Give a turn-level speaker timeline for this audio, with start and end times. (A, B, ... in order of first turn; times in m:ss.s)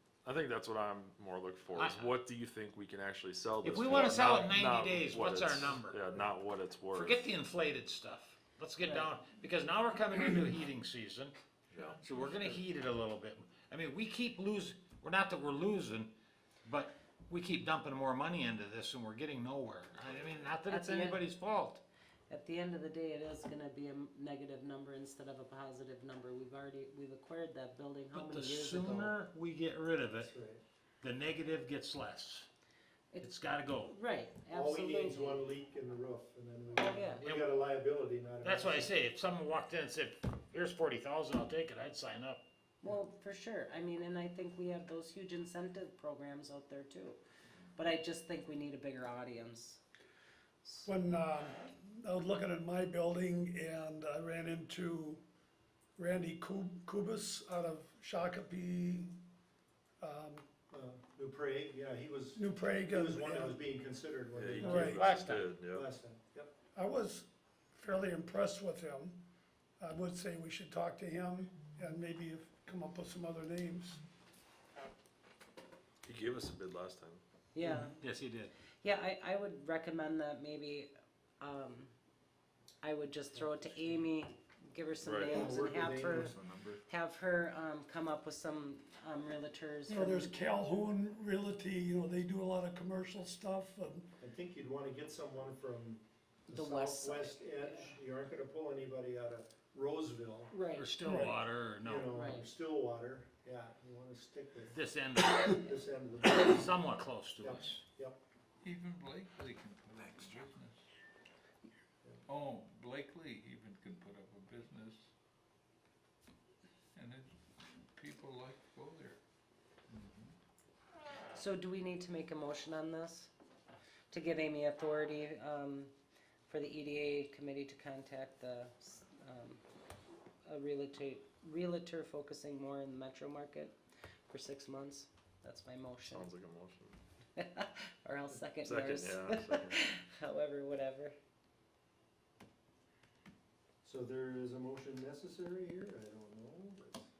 0:00.2-0:07.3 A
0:01.7-0:02.1 B
0:03.6-0:06.2 B
0:06.9-0:11.4 B
0:08.8-0:09.1 C
0:11.7-0:12.6 A
0:11.7-0:12.0 D
0:12.0-0:16.1 B
0:16.6-0:21.8 B
0:20.6-0:21.2 C
0:22.3-0:29.1 C
0:28.1-0:30.3 B
0:30.2-0:30.6 E
0:31.0-0:32.5 B
0:33.2-0:33.9 B
0:33.8-0:35.5 C
0:34.5-0:38.9 E
0:36.7-0:37.2 C
0:37.2-0:37.5 B
0:38.4-0:42.4 B
0:42.8-0:47.2 C
0:47.8-0:49.8 C
0:50.6-0:50.9 C
0:50.8-0:55.2 F
0:56.0-0:59.1 F
1:00.0-1:00.4 F
1:00.7-1:05.0 E
1:02.3-1:03.6 F
1:04.3-1:05.9 A
1:04.6-1:05.0 F
1:04.6-1:05.5 B
1:05.7-1:06.5 E
1:06.7-1:09.2 F
1:09.8-1:14.0 F
1:16.0-1:17.2 A
1:17.5-1:18.0 C
1:18.0-1:18.5 B
1:18.8-1:21.9 C
1:22.8-1:26.3 C
1:25.0-1:25.5 A
1:25.3-1:26.4 E
1:26.4-1:26.7 D
1:26.8-1:30.4 C
1:29.9-1:34.2 F
1:34.2-1:40.5 E
1:36.5-1:38.0 C
1:40.5-1:40.9 C
1:40.8-1:42.2 B
1:41.0-1:41.4 F
1:41.8-1:44.8 E
1:42.1-1:42.5 C
1:44.7-1:47.8 B
1:45.5-1:46.8 E
1:47.4-1:48.2 E
1:48.6-1:50.8 D
1:52.3-1:55.1 D
1:57.0-1:57.4 D
1:57.9-1:59.2 D
1:59.9-2:00.3 D
2:01.3-2:03.3 C
2:04.1-2:05.9 C
2:06.5-2:09.6 C
2:10.4-2:13.7 C
2:14.3-2:16.3 C
2:16.1-2:17.0 A
2:17.4-2:21.1 C
2:18.6-2:19.8 A
2:23.8-2:27.1 E